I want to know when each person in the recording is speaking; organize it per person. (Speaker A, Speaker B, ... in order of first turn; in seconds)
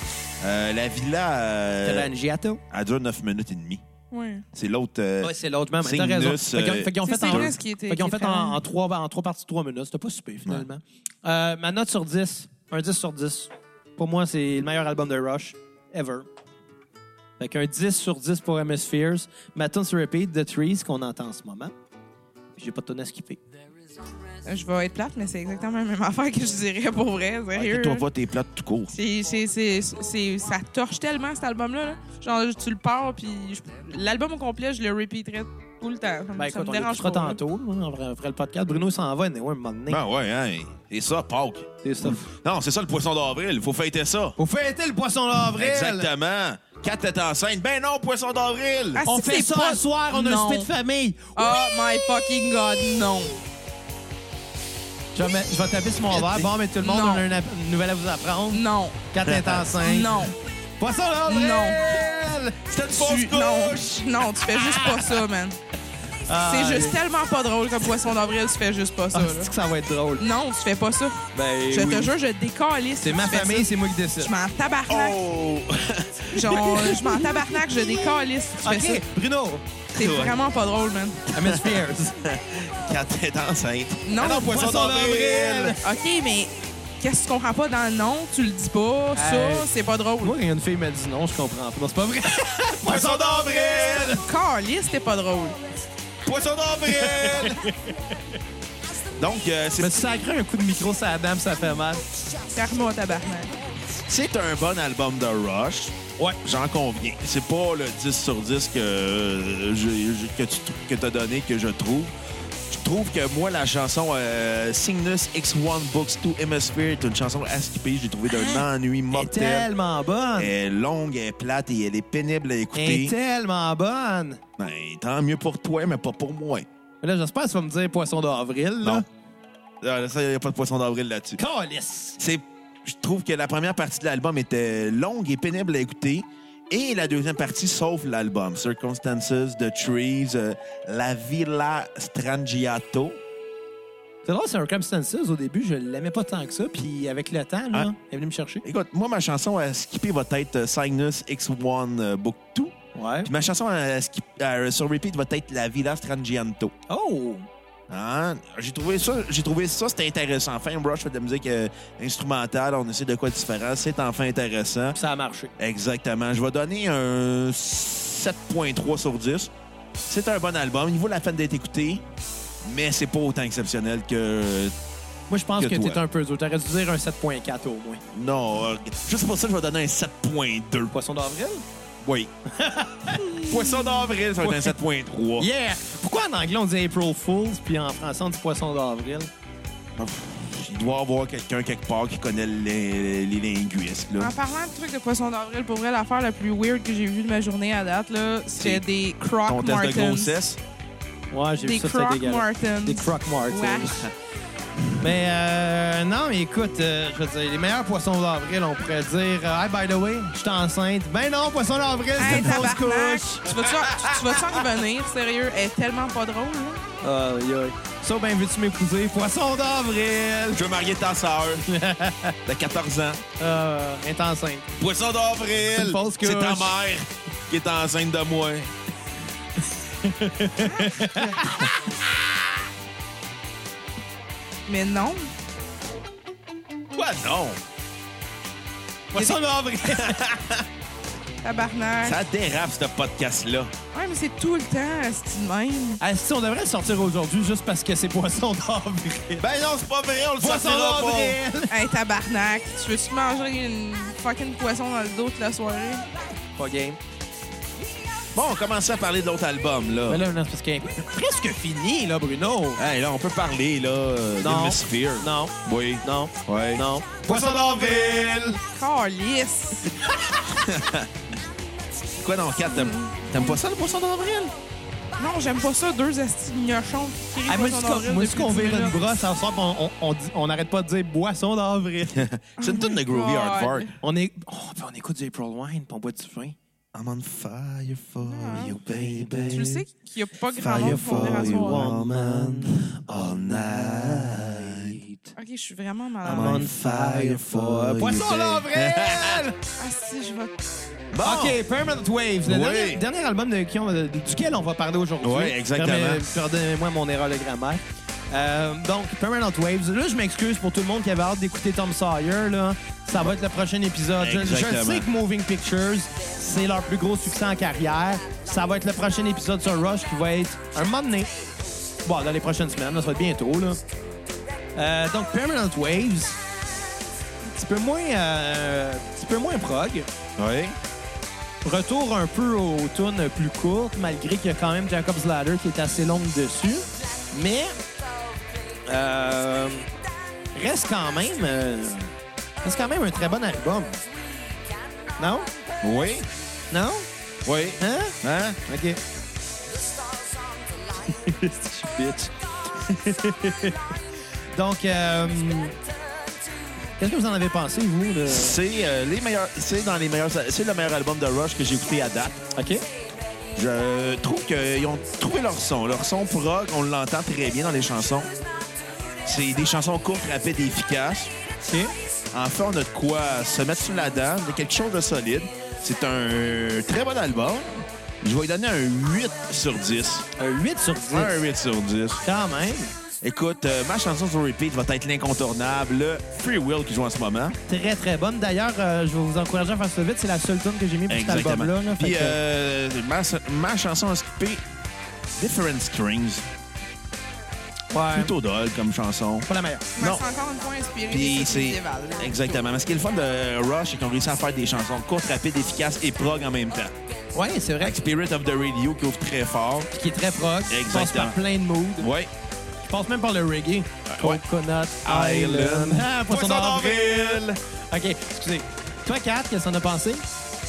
Speaker A: 0.4-2.1, 2.7-3.8, 4.5-7.5, 27.5-28.9, 39.9-44.4, 45.4-49.0, 59.3-59.6, 62.6-64.2, 74.9-77.0, 79.9-80.4, 81.4-85.8, 92.8-94.2, 96.2-97.6, 99.2-100.0, 104.1-112.1, 112.7-119.7, 120.3-123.1, 124.6-126.7, 129.8-131.4, 132.2-143.2, 148.6-156.7, 157.9-165.0, 165.6-169.5, 170.1-172.0, 172.6-174.7, 175.6-176.0, 178.1-180.9, 182.0-182.3, 183.4-185.5, 189.9-194.3, 198.6-198.8, 199.4-200.6, 212.2-212.8, 220.5-221.6, 222.4-223.2, 224.8-228.7, 231.8-232.1, 236.9-237.6, 239.8-240.6, 242.0-243.7, 249.4-251.4, 258.3-260.2, 262.8-268.6, 270.5-271.1, 272.2-274.5, 282.1-283.9, 286.9-289.8, 290.6-295.0, 296.2-299.4, 301.1-301.6, 302.4-303.0, 305.2-306.2, 314.2-315.1, 330.4-330.8, 345.8-346.3, 347.4-348.6, 358.2-362.4, 363.5-368.3, 369.2-371.3, 372.3-380.3, 381.1-382.2, 383.2-387.6, 391.1-394.6, 395.4-396.4, 398.1-400.2, 401.1-406.9, 407.8-409.9, 410.7-411.4, 412.0-412.3, 414.1-414.4, 415.0-417.6
Speaker B: 1.8-2.6, 5.2-16.2, 17.4-21.7, 22.6-23.4, 36.4-40.0, 41.8-42.3, 44.4-46.1, 49.0-51.5, 55.1-62.6, 64.5-65.1, 66.3-67.0, 69.1-70.2, 71.3-72.1, 73.0-74.3, 76.8-79.6, 81.3-82.2, 84.2-85.8, 89.1-89.7, 90.2-94.2, 96.8-98.1, 99.8-102.0, 118.3-120.5, 122.7-124.4, 127.0-129.1, 131.4-132.2, 144.2-148.6, 152.9-153.3, 156.9-157.5, 164.9-165.5, 175.3-178.0, 180.9-181.6, 182.5-183.4, 184.4-184.8, 185.4-189.3, 201.3-204.1, 205.0-213.5, 217.0-220.6, 221.6-222.4, 223.4-224.7, 225.7-226.8, 230.0-231.7, 239.1-240.3, 246.0-249.4, 250.4-251.7, 256.6-257.0, 260.1-262.8, 264.4-268.1, 277.5-282.2, 284.0-286.6, 290.7-295.3, 296.2-299.6, 301.2-321.4, 322.0-323.8, 324.7-326.4, 327.4-330.1, 331.6-337.8, 338.9-339.9, 340.5-344.0, 345.2-345.5, 346.7-347.1, 347.8-349.0, 351.0-353.9, 354.5-355.8, 357.0-358.6, 362.5-362.8, 371.6-371.9, 380.4-381.3, 382.2-382.9, 387.7-392.4, 397.9-398.3, 399.4-399.9, 407.3-408.0, 409.9-412.1, 412.9-420.2
Speaker C: 4.1-4.4, 7.0-8.6, 24.4-28.1, 28.9-37.4, 48.9-50.7, 51.4-53.4, 56.8-57.2, 58.5-59.0, 59.7-60.3, 61.3-61.9, 62.9-65.6, 66.5-69.5, 70.2-75.2, 76.3-79.0, 79.9-81.3, 84.0-84.5, 85.8-90.3, 94.1-95.6, 102.5-103.5, 183.5-184.0, 194.2-200.4, 201.6-204.1, 212.2-216.8, 234.7-235.3, 241.4-242.2, 243.9-246.0, 251.7-256.1, 268.6-269.9, 272.7-273.5, 275.2-279.0, 282.6-283.9, 288.2-288.8, 289.5-291.9, 295.4-296.6, 299.8-300.5, 399.9-402.7